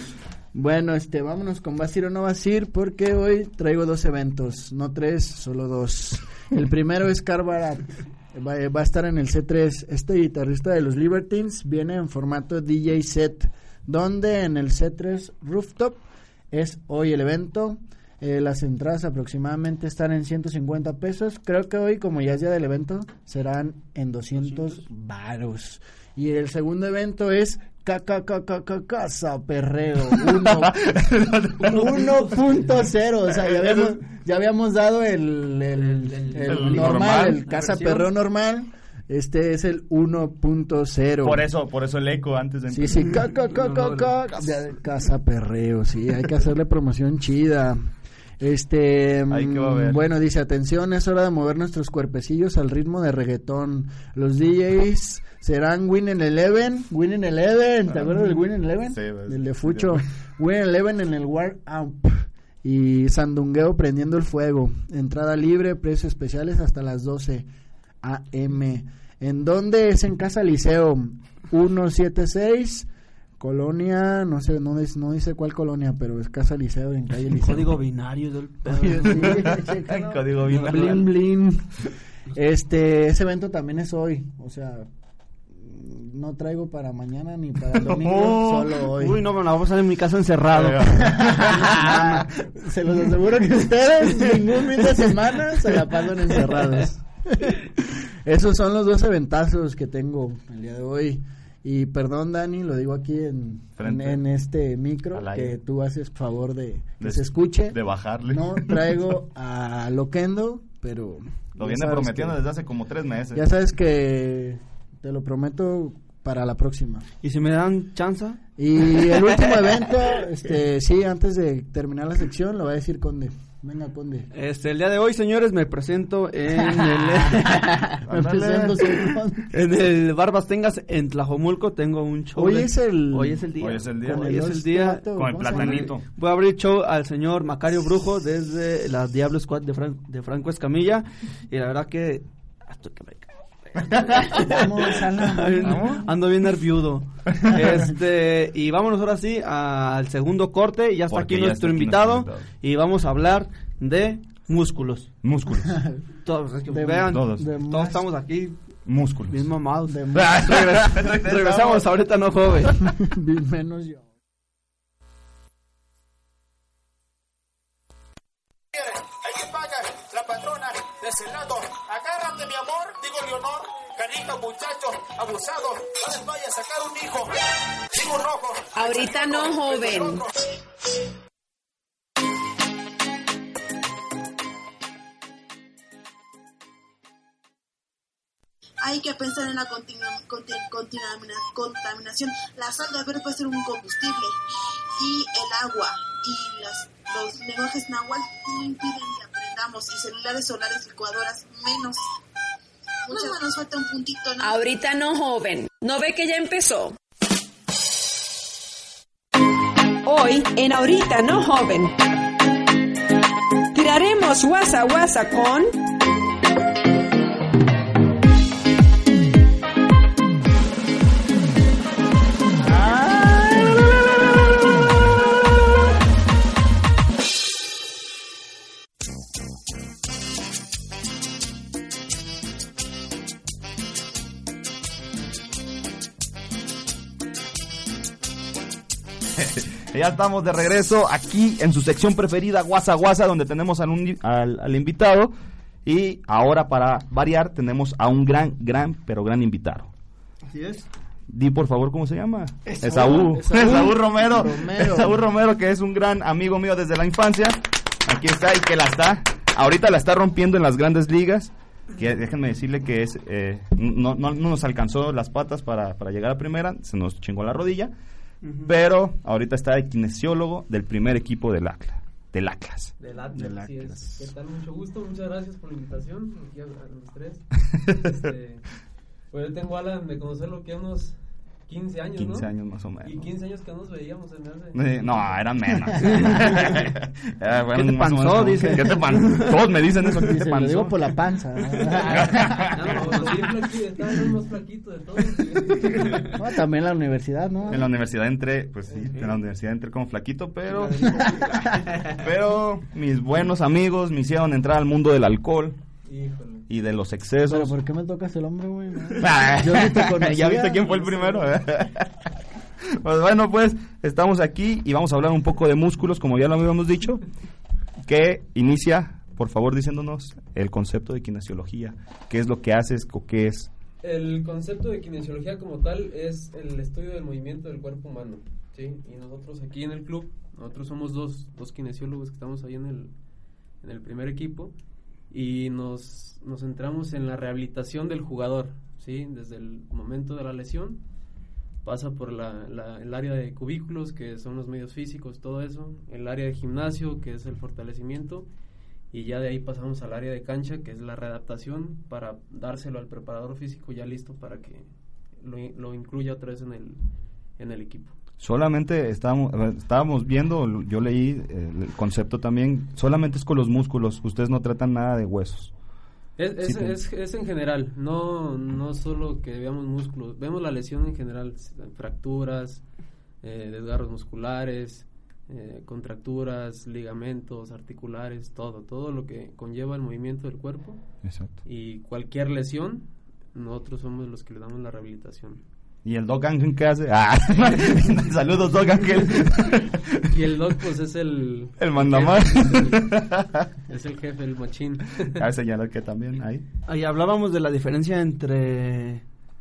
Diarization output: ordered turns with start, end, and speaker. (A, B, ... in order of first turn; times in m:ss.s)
0:00.5-0:30.7 A
0:24.4-0:24.8 B
0:30.3-0:32.3 C
0:31.6-0:41.4 A
0:31.8-0:32.7 B
0:33.3-0:34.0 C
0:35.7-0:38.1 B
0:36.4-0:37.4 C
0:41.2-0:43.2 C
0:42.7-0:47.9 A
0:43.5-0:44.5 B
0:48.4-1:07.4 A
0:49.3-0:50.0 C
0:57.9-0:58.2 C
0:58.9-1:00.0 C
1:08.0-1:12.9 A
1:13.4-1:17.7 A
1:17.4-1:19.5 B
1:18.6-1:21.7 A
1:19.1-1:21.1 C
1:20.4-1:21.1 B
1:22.3-1:24.9 A
1:25.6-1:29.2 A
1:27.8-1:28.8 C
1:29.0-1:31.0 B
1:30.5-1:32.2 C
1:30.9-1:47.8 A
1:31.5-1:32.2 B
1:43.8-1:44.2 C
1:45.1-1:45.6 C
1:47.0-1:49.0 C
1:48.3-1:52.4 A
1:51.6-1:53.4 C
1:53.3-1:57.0 A
1:57.2-1:58.4 B
1:58.6-2:04.3 A
1:59.2-1:59.5 B
2:04.3-2:07.9 B
2:06.6-2:09.5 A
2:08.0-2:08.9 C
2:09.5-2:35.1 B
2:12.4-2:13.4 A
2:13.6-2:14.4 C
2:14.0-2:15.9 A
2:15.1-2:16.0 C
2:24.3-2:26.1 A
2:25.6-2:26.0 C
2:31.1-2:32.4 C
2:35.2-2:35.8 C
2:35.7-2:36.0 A
2:36.2-2:38.6 B
2:36.7-2:38.0 A
2:37.1-2:37.5 C
2:38.8-2:39.5 C
2:39.3-2:42.8 B
2:39.9-2:40.3 A
2:40.1-2:41.8 C
2:43.0-2:44.1 A
2:48.7-2:57.3 D
2:57.9-3:00.3 D
2:58.7-3:00.2 E
3:08.8-3:14.4 F
3:15.0-3:22.0 F
3:23.0-3:24.6 F
3:24.4-3:27.0 E
3:30.0-3:31.9 E
3:33.7-3:35.7 E
3:59.4-4:05.3 C
4:05.8-4:09.9 C
4:10.5-4:10.9 B
4:11.3-4:27.9 C
4:12.7-4:13.3 B
4:12.8-4:15.2 A
4:28.4-4:28.7 B
4:28.6-4:33.0 C
4:33.0-4:38.6 G
4:33.3-4:34.3 A
4:37.7-4:38.1 C
4:39.3-4:42.5 G
4:42.2-4:43.3 C
4:43.0-4:45.3 G
4:44.7-4:51.1 C
4:46.0-4:46.8 B
4:47.7-4:49.6 B
4:50.1-4:53.3 A
4:52.1-4:52.9 C
4:52.7-4:56.3 G
4:56.4-4:57.9 A
4:57.7-5:01.2 C
5:00.7-5:02.1 B
5:01.3-5:01.8 A
5:02.1-5:05.8 C
5:06.0-5:06.6 G
5:06.7-5:07.7 C
5:07.5-5:11.4 A
5:09.2-5:12.1 C
5:12.9-5:17.2 C
5:18.0-5:23.7 C
5:24.0-5:33.1 G
5:33.8-5:34.7 G
5:35.3-5:41.0 G
5:41.8-5:48.5 G
5:49.1-5:57.0 G
5:57.6-5:58.1 G
5:58.4-6:05.7 C
6:06.4-6:12.8 G
6:06.6-6:07.0 C
6:13.4-6:21.0 G
6:21.2-6:21.6 C
6:21.6-6:25.6 G
6:26.0-6:30.4 C
6:30.3-6:33.0 G
6:31.8-6:33.7 C
6:33.9-6:35.4 G
6:35.3-6:36.6 C
6:36.9-6:39.2 B